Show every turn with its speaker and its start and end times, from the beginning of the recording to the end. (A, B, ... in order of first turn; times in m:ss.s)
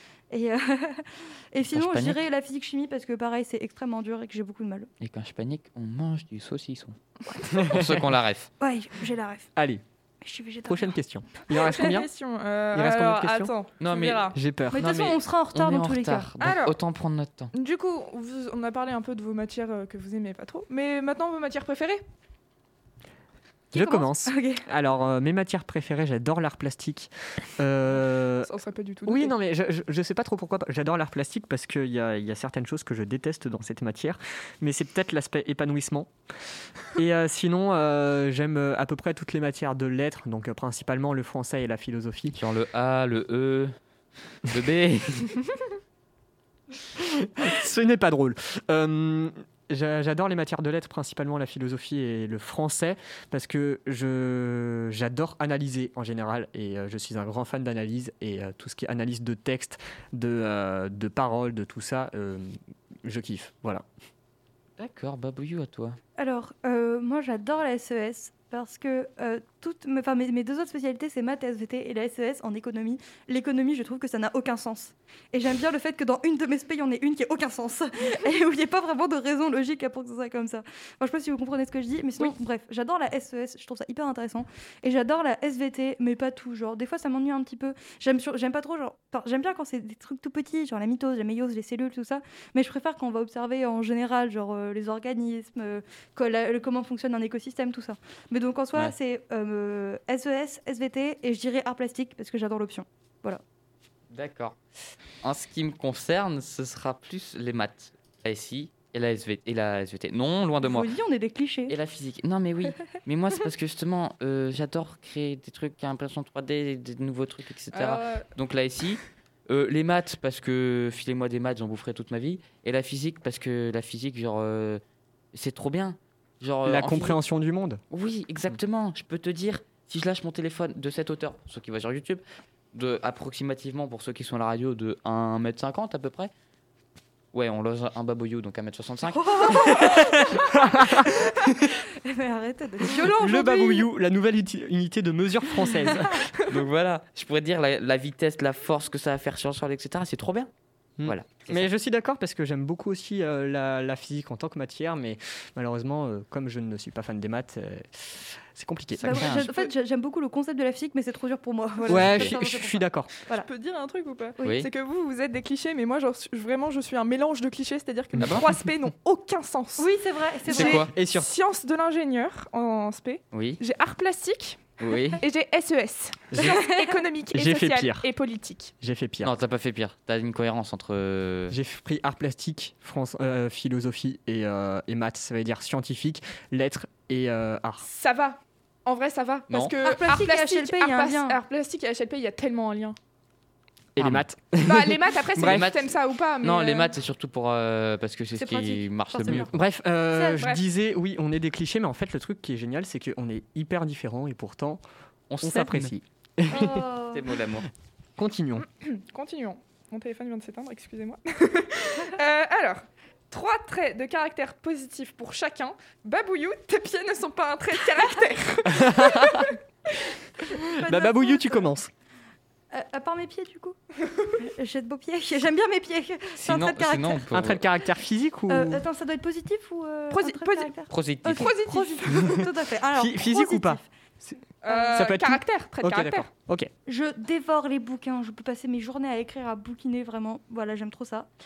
0:00.3-0:04.9 A
0:01.7-0:02.2 B
0:05.0-0:08.5 B
0:07.6-0:07.9 C
0:08.6-0:09.5 A
0:09.6-0:09.8 C
0:10.2-0:10.9 A
0:10.6-0:12.1 C
0:11.5-0:14.4 D
0:12.7-0:13.5 C
0:13.8-0:17.5 B
0:14.3-0:14.9 C
0:14.7-0:16.3 A
0:16.4-0:16.8 D
0:17.5-0:22.0 D
0:23.7-0:24.6 A
0:23.7-0:28.5 C
0:28.4-0:29.3 D
0:29.0-0:36.1 C
0:36.9-0:42.3 C
0:42.3-0:43.7 B
0:44.4-0:45.4 B
0:47.0-1:03.8 C
1:04.8-1:06.0 B
1:06.2-1:43.4 A
1:44.1-1:44.6 B
1:45.2-1:50.9 B
1:50.6-1:51.7 A
1:51.7-2:04.8 B
1:57.7-1:58.3 D
2:05.3-2:07.2 B
2:06.6-2:07.8 C
2:07.9-2:12.2 B
2:12.7-2:16.3 B
2:17.3-2:20.4 B
2:19.1-2:23.9 A
2:20.6-2:21.3 C
2:22.9-2:26.3 C
2:25.8-2:26.2 A
2:26.4-2:30.5 B
2:31.0-2:39.4 C
2:31.0-2:31.7 B
2:39.0-2:39.5 B
2:39.0-2:43.5 A
2:39.2-2:39.7 D
2:41.9-2:43.1 C
2:43.3-2:49.9 D
2:44.4-2:44.7 B
2:48.1-2:48.5 B
2:49.8-2:50.8 A
2:50.5-2:54.6 D
2:50.5-2:50.9 B
2:50.8-2:51.3 C
2:53.3-2:53.6 B
2:54.8-2:55.2 B
2:55.2-2:58.7 D
2:56.3-2:56.7 C
2:56.4-2:56.9 A
2:57.3-2:58.1 C
2:58.8-2:59.3 C
2:59.2-3:01.6 B
3:01.5-3:07.8 C
3:07.8-3:13.0 D
3:09.5-3:09.8 B
3:09.8-3:11.4 A
3:13.9-3:15.7 C
3:14.0-3:14.2 B
3:14.6-3:16.9 D
3:15.4-3:19.5 B
3:18.4-3:19.5 A
3:19.3-3:24.8 C
3:20.1-3:20.5 A
3:20.4-3:20.6 D
3:25.3-3:25.9 B
3:25.4-3:26.9 C
3:26.5-3:27.2 A
3:27.1-3:27.7 B
3:28.2-3:28.6 C
3:28.6-3:39.6 D
3:38.7-3:39.5 C
3:40.5-3:41.9 C
3:40.6-3:41.7 A
3:42.7-3:43.8 A
3:44.4-3:47.2 A
3:46.4-3:47.6 B
3:47.3-3:48.8 C
3:48.5-3:53.8 A
3:50.1-3:50.7 D
3:50.9-3:51.6 B
3:51.3-3:52.5 D
3:52.1-3:54.4 C
3:54.6-3:56.3 D
3:54.6-3:55.1 A
3:54.9-3:56.7 C
3:56.8-4:01.3 A